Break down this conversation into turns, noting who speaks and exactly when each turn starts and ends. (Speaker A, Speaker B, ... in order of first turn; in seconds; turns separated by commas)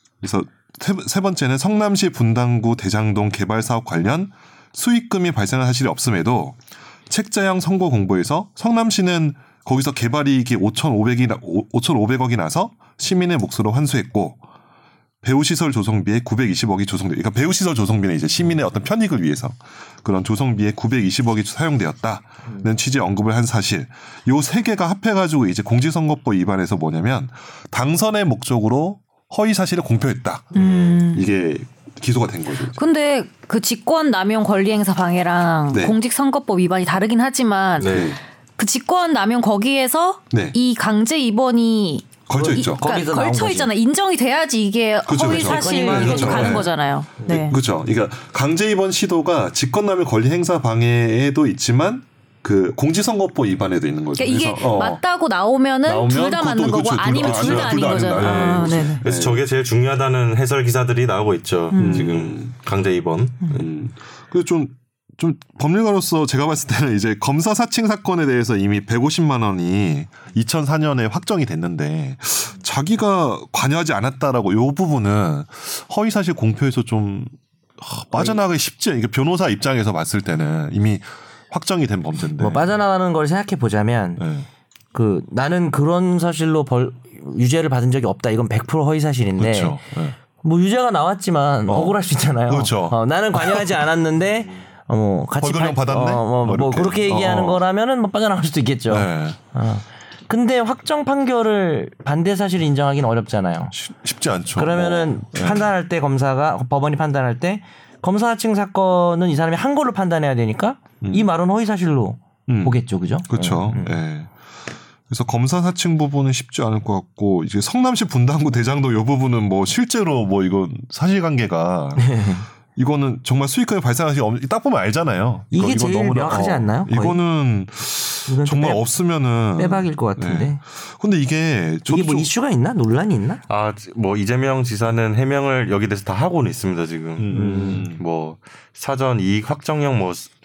Speaker A: 0.2-14.4, Speaker A: 15.2-32.8, Speaker B: 30.6-31.3, Speaker B: 32.7-47.6, Speaker A: 35.7-36.0, Speaker C: 37.8-38.1, Speaker A: 37.8-38.2, Speaker A: 42.3-42.9, Speaker D: 42.4-43.7, Speaker A: 45.1-55.0, Speaker D: 45.2-46.7, Speaker D: 47.2-47.6, Speaker B: 54.2-59.0, Speaker A: 55.9-59.4, Speaker C: 57.3-63.7, Speaker B: 61.7-62.1, Speaker A: 61.8-62.5, Speaker A: 63.5-82.6, Speaker D: 82.4-84.2, Speaker A: 84.2-84.5, Speaker D: 84.9-89.8, Speaker A: 89.4-90.2, Speaker D: 90.4-103.7, Speaker A: 91.7-93.7, Speaker A: 95.4-97.6, Speaker A: 98.9-99.4, Speaker A: 103.7-105.7, Speaker D: 104.6-114.0, Speaker A: 111.0-111.3, Speaker A: 112.5-114.3, Speaker A: 115.1-122.2, Speaker D: 122.0-122.5, Speaker A: 122.8-132.3, Speaker D: 125.5-127.2, Speaker D: 128.3-128.8, Speaker D: 129.6-130.6, Speaker D: 131.9-133.4, Speaker C: 133.5-140.3, Speaker A: 137.2-138.0, Speaker D: 137.3-137.9